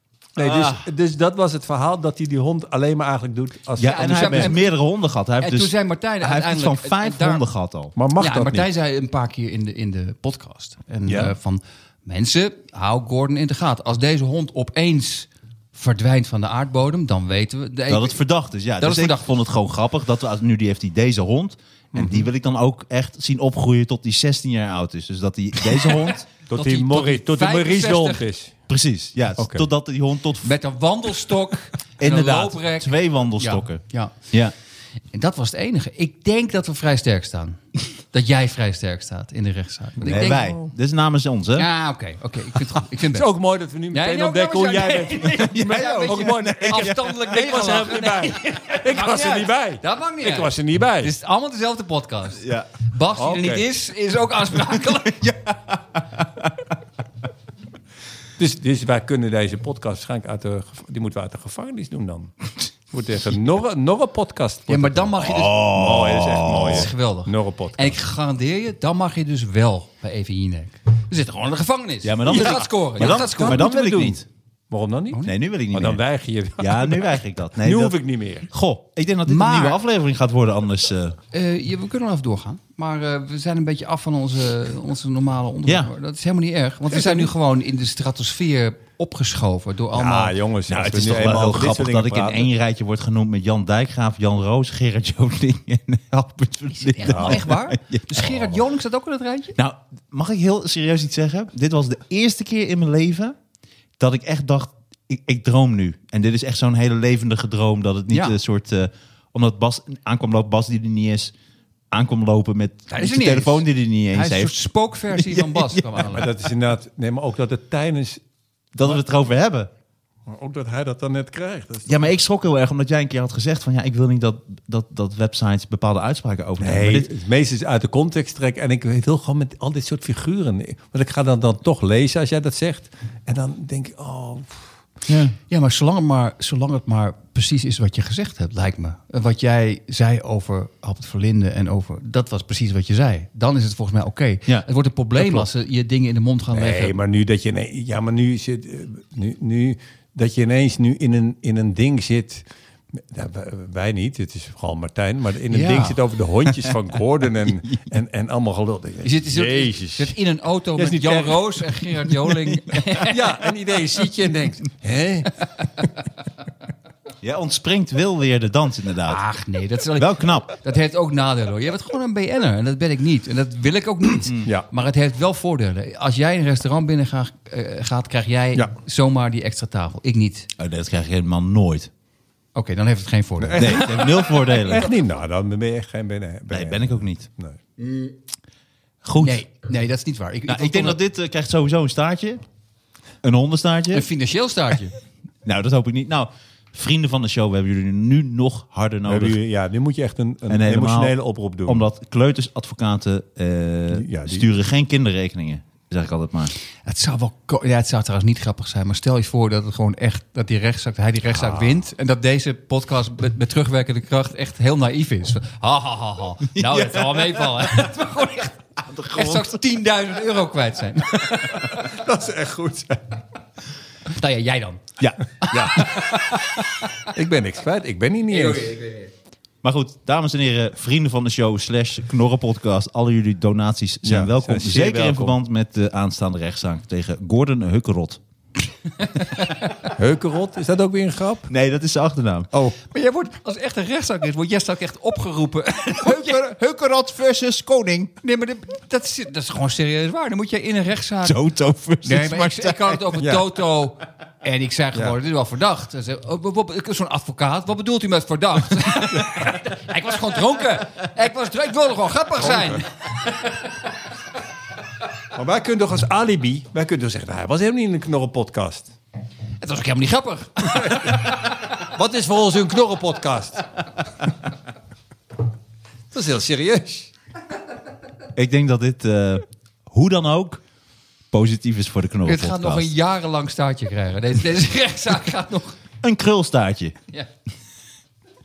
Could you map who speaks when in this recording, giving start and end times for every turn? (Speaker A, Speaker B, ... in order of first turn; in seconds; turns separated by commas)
Speaker A: 0.3-4.5, Speaker B: 0.4-0.8, Speaker B: 3.8-7.9, Speaker C: 3.8-4.8, Speaker C: 5.4-7.4, Speaker A: 8.0-8.7, Speaker C: 8.2-18.2, Speaker A: 11.1-11.3, Speaker B: 17.9-26.2, Speaker C: 18.8-19.3, Speaker A: 21.9-22.3, Speaker C: 26.1-28.2, Speaker A: 26.5-28.5, Speaker B: 28.7-30.5, Speaker A: 29.4-29.6, Speaker C: 30.4-34.1, Speaker B: 32.0-34.5, Speaker C: 35.1-40.6, Speaker B: 40.0-41.7, Speaker A: 40.1-40.6, Speaker C: 41.5-43.3, Speaker A: 43.0-51.1, Speaker C: 43.9-55.4, Speaker B: 45.4-47.0, Speaker B: 52.4-52.7, Speaker A: 53.1-53.6, Speaker B: 55.2-56.5, Speaker A: 58.4-62.3, Speaker A: 62.9-68.0, Speaker C: 64.7-65.8, Speaker B: 65.2-66.9, Speaker C: 66.5-73.8, Speaker B: 72.0-74.2, Speaker A: 72.3-74.2, Speaker A: 74.7-78.5, Speaker B: 75.2-76.0, Speaker B: 76.6-81.2, Speaker C: 79.3-79.8, Speaker C: 81.3-90.3, Speaker B: 85.7-85.9, Speaker A: 86.9-87.3, Speaker A: 89.9-92.5, Speaker B: 90.7-98.5, Speaker C: 96.8-99.5, Speaker A: 97.0-97.5, Speaker B: 99.5-103.3, Speaker B: 104.0-111.3, Speaker C: 108.1-108.4, Speaker B: 111.9-114.6, Speaker C: 112.9-116.3, Speaker B: 115.1-116.1, Speaker A: 116.0-118.2, Speaker B: 118.7-119.7, Speaker A: 120.3-122.0, Speaker B: 121.8-127.1, Speaker A: 126.6-134.6, Speaker B: 135.1-135.3, Speaker C: 135.5-147.0, Speaker A: 145.2-145.5, Speaker A: 146.5-160.2, Speaker C: 155.5-156.0, Speaker C: 159.0-163.4, Speaker A: 160.8-161.7, Speaker A: 163.0-165.3, Speaker B: 167.2-169.2, Speaker C: 169.1-180.5, Speaker B: 169.9-170.5, Speaker B: 180.6-181.9, Speaker C: 182.5-184.1, Speaker A: 183.4-187.6, Speaker B: 183.6-184.9, Speaker B: 186.5-187.3, Speaker B: 189.0-189.4, Speaker C: 189.2-191.0, Speaker B: 190.5-192.4, Speaker B: 193.2-194.1, Speaker C: 193.9-194.9, Speaker B: 195.4-199.4, Speaker A: 199.1-201.8, Speaker B: 200.5-206.5, Speaker A: 203.9-204.4, Speaker C: 206.8-218.5, Speaker A: 211.3-211.8, Speaker B: 216.5-217.7, Speaker B: 218.8-219.6, Speaker C: 219.1-221.8, Speaker A: 221.3-223.0, Speaker C: 224.1-224.8, Speaker C: 225.4-227.1, Speaker A: 225.5-226.2, Speaker A: 227.1-228.8, Speaker C: 228.3-229.1, Speaker B: 229.6-238.2, Speaker A: 234.0-235.3, Speaker A: 239.9-241.5, Speaker B: 241.5-242.5, Speaker C: 242.8-246.4, Speaker B: 246.0-248.1, Speaker C: 248.2-251.4, Speaker B: 251.2-253.0, Speaker C: 252.0-263.8, Speaker A: 253.2-253.4, Speaker A: 262.4-262.8, Speaker A: 265.3-268.9, Speaker C: 269.6-271.5, Speaker A: 270.7-273.6, Speaker A: 276.1-277.1, Speaker B: 278.3-280.6, Speaker B: 281.3-282.9, Speaker C: 282.2-285.8, Speaker B: 286.0-286.9